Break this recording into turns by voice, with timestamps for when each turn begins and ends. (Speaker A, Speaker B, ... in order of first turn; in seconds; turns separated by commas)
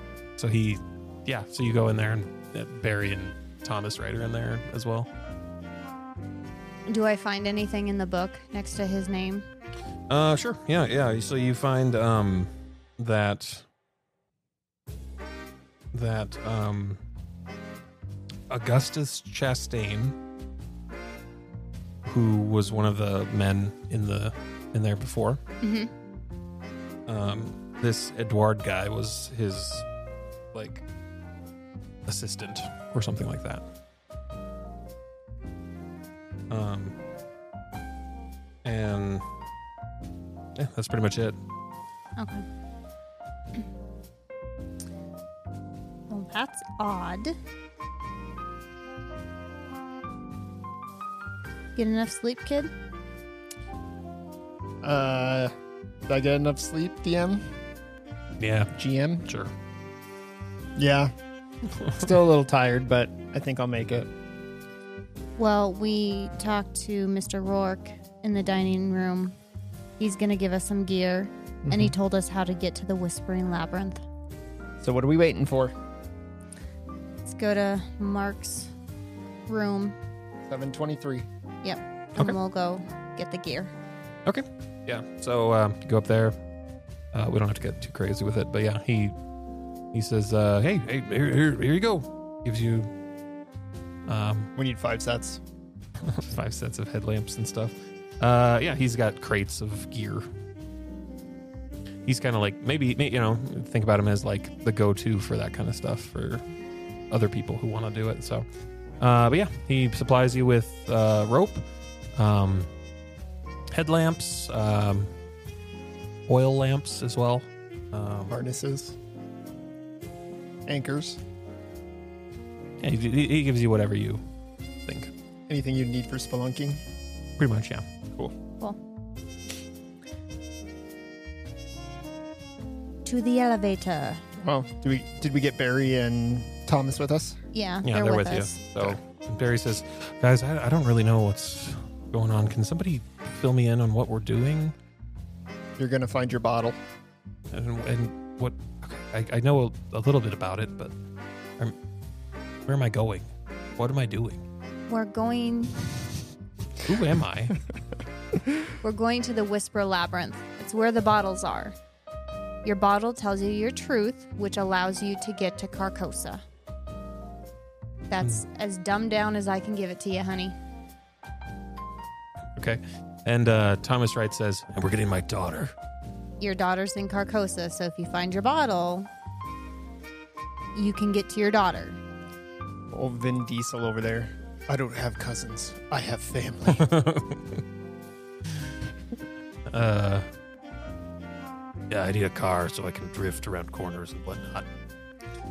Speaker A: 0.4-5.1, Speaker B: 6.9-9.5, Speaker A: 10.1-13.7, Speaker A: 15.9-17.0, Speaker A: 18.5-20.2, Speaker A: 22.1-25.4, Speaker B: 25.6-25.9, Speaker A: 27.1-29.9, Speaker A: 30.5-30.8, Speaker A: 32.1-33.6, Speaker A: 36.5-37.0, Speaker A: 38.6-39.2, Speaker A: 40.5-41.4, Speaker B: 42.2-42.5, Speaker B: 46.1-47.4, Speaker B: 51.8-52.7, Speaker C: 54.8-55.5, Speaker C: 56.1-57.4, Speaker A: 58.4-58.7, Speaker C: 58.7-59.3, Speaker A: 59.3-59.5, Speaker C: 60.8-61.1, Speaker C: 62.0-64.1, Speaker B: 65.4-69.4, Speaker B: 70.0-74.0, Speaker C: 71.7-71.9, Speaker C: 74.8-75.7, Speaker B: 77.3-78.7, Speaker B: 79.5-80.0, Speaker C: 80.5-81.3, Speaker B: 81.6-83.7, Speaker A: 84.3-86.3, Speaker A: 87.1-89.2, Speaker A: 89.9-92.9, Speaker A: 94.1-94.5, Speaker C: 94.6-95.4, Speaker A: 96.0-100.3, Speaker A: 102.1-106.4, Speaker A: 107.1-108.5, Speaker A: 109.0-112.7, Speaker A: 113.7-115.1, Speaker A: 116.3-118.4, Speaker C: 118.3-119.0, Speaker C: 120.7-121.2, Speaker A: 122.8-124.2, Speaker A: 124.9-125.1, Speaker C: 125.5-126.8, Speaker A: 127.4-127.9, Speaker B: 133.1-134.2, Speaker C: 134.4-137.4, Speaker B: 137.5-138.6, Speaker A: 137.8-144.8, Speaker C: 145.8-146.8, Speaker A: 147.5-150.9, Speaker A: 152.7-153.3, Speaker A: 153.8-154.4, Speaker B: 154.9-155.8, Speaker A: 156.8-157.6, Speaker B: 158.8-161.8, Speaker B: 162.6-166.4, Speaker B: 168.1-170.6, Speaker A: 172.6-175.7, Speaker B: 176.4-179.1, Speaker B: 180.7-182.0, Speaker C: 182.9-186.9, Speaker A: 186.7-187.4, Speaker A: 189.7-190.3, Speaker A: 191.9-194.7